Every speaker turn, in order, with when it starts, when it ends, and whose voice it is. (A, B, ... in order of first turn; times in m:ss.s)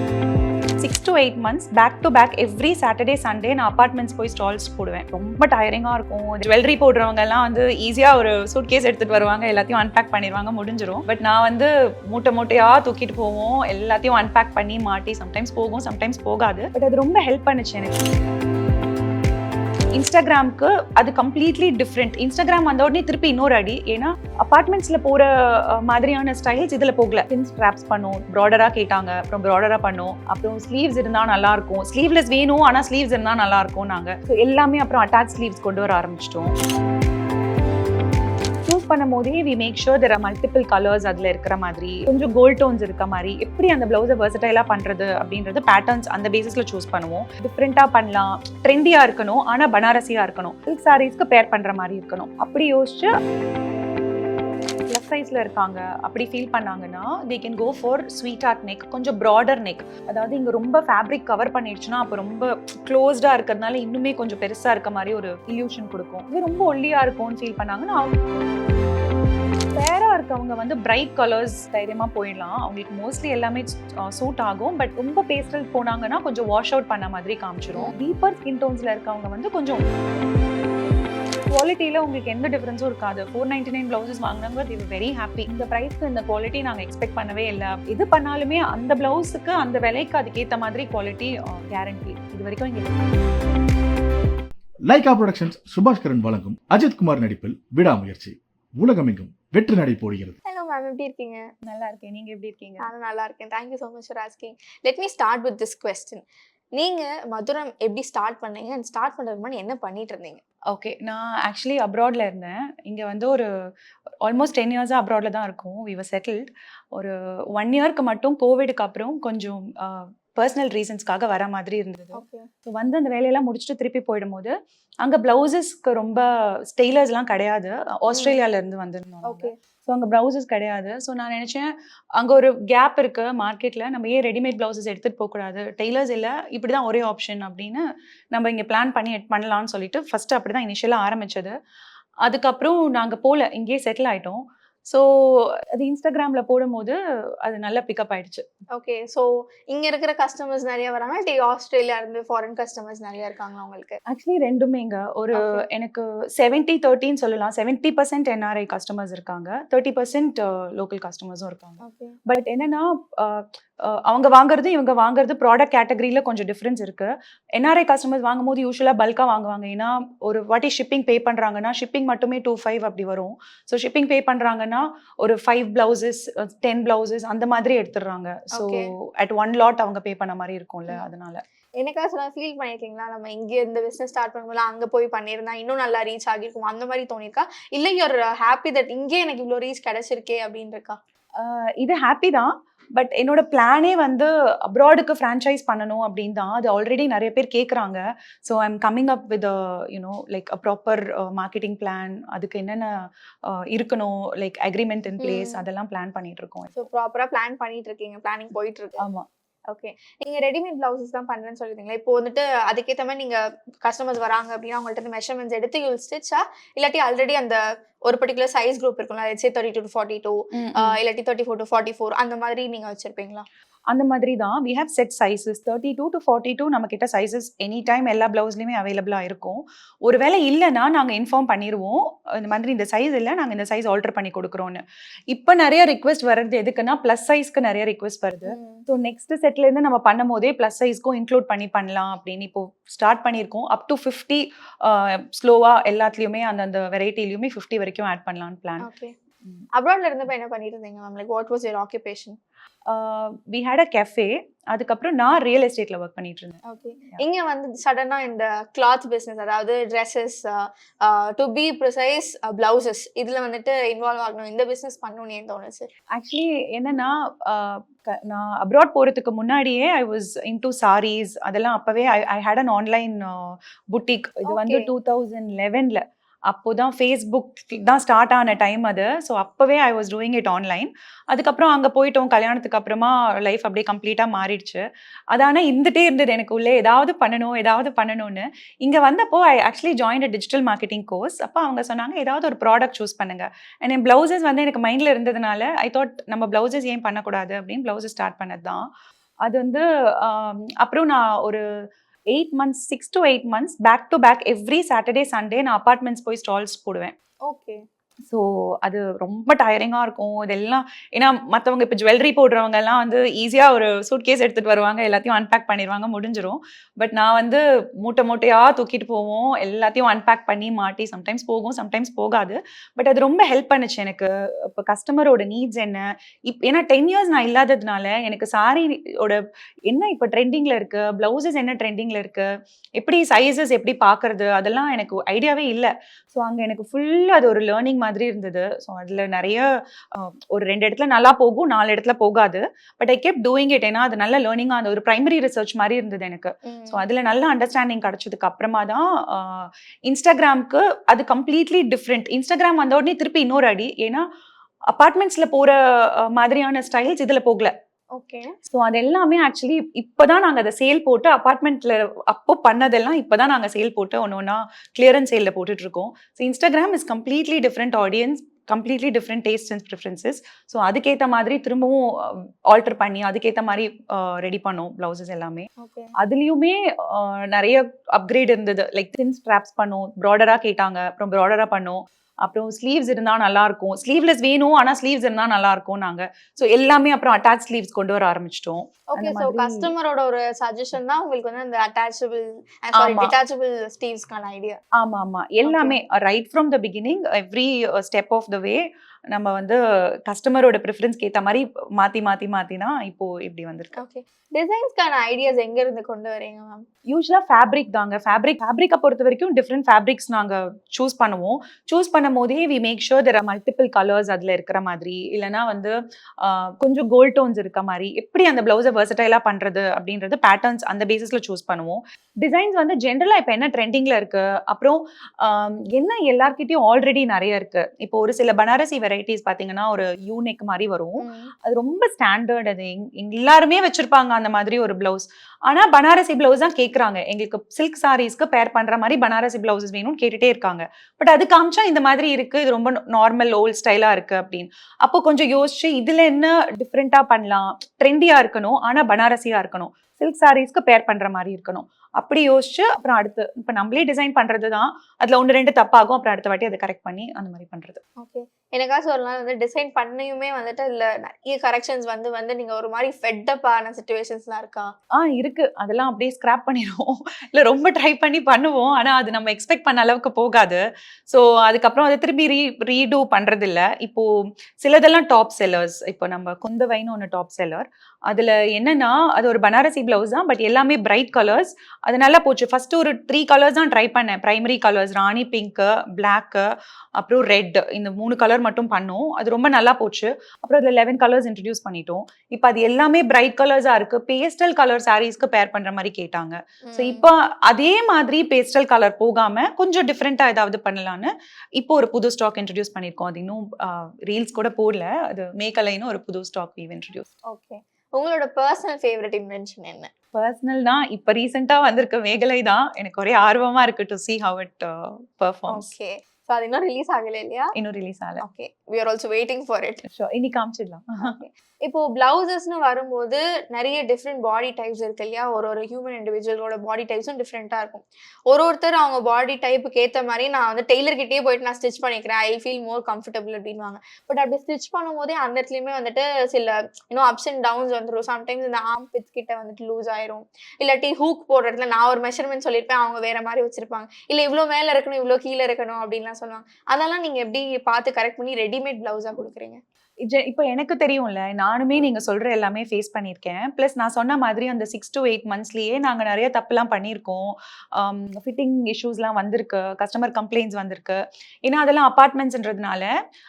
0:00.8-0:18.0 A
0:19.9-0:36.5 A
0:38.6-0:53.1 A
0:54.9-1:08.1 A
1:09.7-1:19.8 A
1:21.5-1:33.0 A
1:34.9-1:40.4 B
1:40.4-1:41.4 C
1:41.6-1:42.9 A
1:42.8-1:46.2 C
1:46.8-1:50.4 C
1:50.7-1:53.5 A
1:54.2-2:21.5 A
2:02.1-2:02.5 C
2:08.1-2:08.4 C
2:09.3-2:09.5 C
2:22.2-2:28.4 A
2:28.7-2:34.0 C
2:34.1-3:01.4 A
2:35.4-2:35.6 C
2:41.8-2:42.2 C
2:58.6-2:58.9 C
3:01.8-3:11.0 C
3:11.4-3:22.9 A
3:23.4-3:26.8 A
3:25.2-3:25.6 C
3:26.8-3:29.0 C
3:29.0-3:29.2 A
3:29.7-3:43.4 C
3:40.5-3:41.0 A
3:43.9-4:08.9 A
3:58.5-3:58.8 C
4:08.8-4:09.1 C
4:09.7-4:12.4 C
4:12.9-4:16.6 A
4:16.7-4:25.9 C
4:26.1-4:58.8 A
4:34.5-4:34.8 C
4:59.4-5:01.6 A
5:02.3-5:07.1 A
5:07.4-5:07.8 C
5:08.3-5:54.2 A
5:46.6-5:47.0 C
5:54.9-5:57.7 A
5:58.1-5:58.5 C
5:58.7-6:29.9 A
6:15.8-6:16.1 C
6:29.1-6:34.8 C
6:32.9-6:33.3 A
6:35.0-6:44.0 A
6:35.6-6:36.0 C
6:44.0-6:46.8 C
6:47.1-7:38.0 A
7:11.2-7:11.5 C
7:38.2-7:44.9 C
7:45.2-7:54.2 A
7:54.8-8:27.2 A
8:16.9-8:17.2 C
8:27.5-8:30.1 C
8:30.3-8:35.9 A
8:35.7-8:37.7 C
8:37.8-8:38.4 A
8:38.4-8:40.0 C
8:40.1-8:41.4 A
8:41.2-9:09.8 C
9:10.2-9:23.1 A